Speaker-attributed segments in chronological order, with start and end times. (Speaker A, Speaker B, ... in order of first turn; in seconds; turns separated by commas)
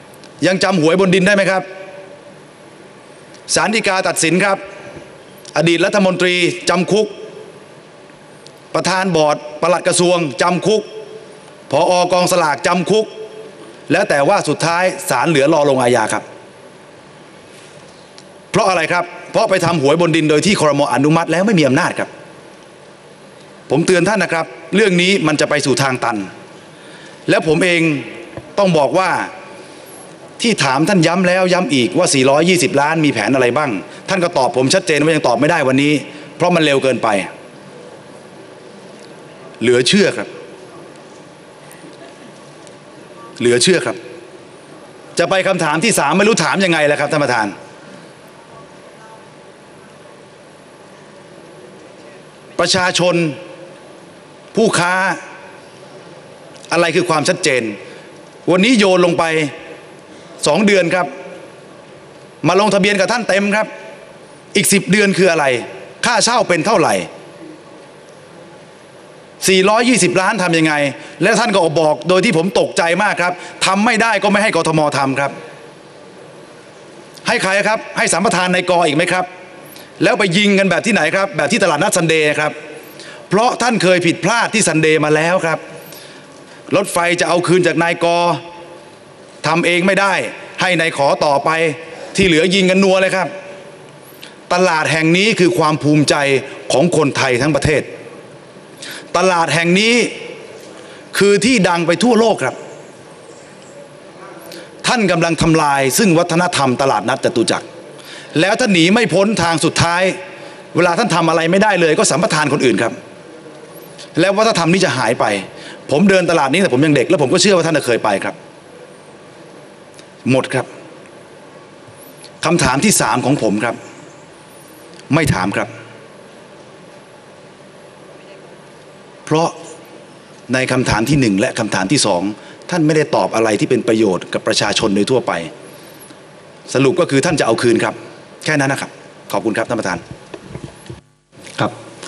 Speaker A: 0.4-1.6, Speaker A: 3.5-4.6, Speaker A: 5.5-7.1, Speaker A: 8.7-10.9, Speaker A: 11.7-13.1, Speaker A: 13.9-16.2, Speaker A: 18.5-22.1, Speaker A: 23.7-26.3, Speaker A: 27.3-29.3, Speaker A: 30.4-37.3, Speaker A: 39.6-40.3, Speaker A: 43.4-44.0, Speaker A: 45.1-47.5, Speaker A: 52.6-53.4, Speaker A: 54.5-55.2, Speaker A: 56.7-57.8, Speaker A: 58.5-59.5, Speaker A: 60.4-61.1, Speaker A: 62.4-63.7, Speaker A: 64.5-67.1, Speaker A: 69.4-75.3, Speaker A: 77.2-79.3, Speaker A: 80.0-82.5, Speaker A: 83.3-85.6, Speaker A: 86.7-88.4, Speaker A: 89.4-93.3, Speaker A: 94.5-97.9, Speaker A: 99.1-100.1, Speaker A: 101.1-102.6, Speaker A: 104.8-107.6, Speaker A: 108.3-110.2, Speaker A: 110.7-112.9, Speaker A: 114.2-118.3, Speaker A: 120.2-120.7, Speaker A: 122.4-123.8, Speaker A: 125.1-125.7, Speaker A: 129.3-129.6, Speaker A: 130.5-135.5, Speaker A: 136.7-140.0